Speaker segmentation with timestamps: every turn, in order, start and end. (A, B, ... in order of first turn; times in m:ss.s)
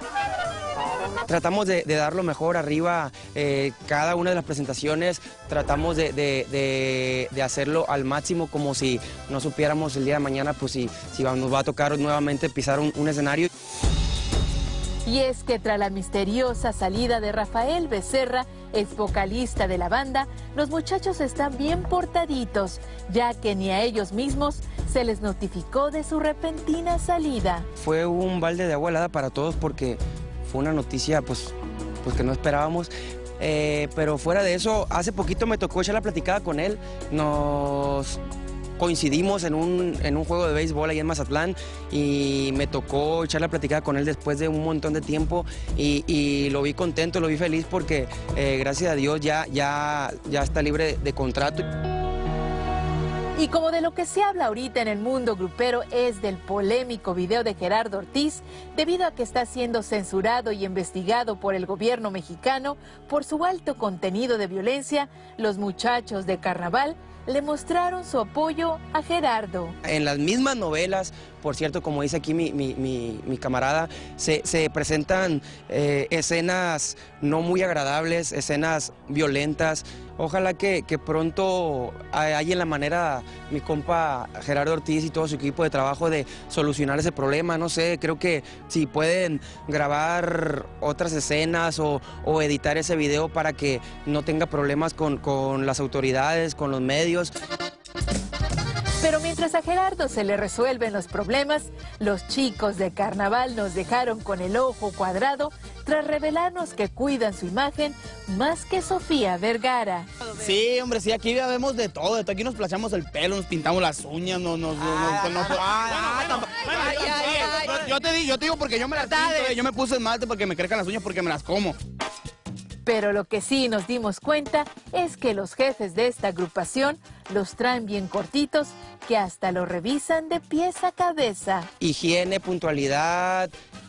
0:01.3-0:13.5 A
0:15.0-0:27.7 B
0:27.8-0:38.2 A
0:38.8-0:51.6 A
0:53.4-1:09.7 B
1:09.8-1:37.3 A
1:39.0-1:50.1 B
1:50.4-2:01.8 C
1:55.0-1:55.4 A
2:02.8-2:11.7 B
2:11.8-2:13.5 A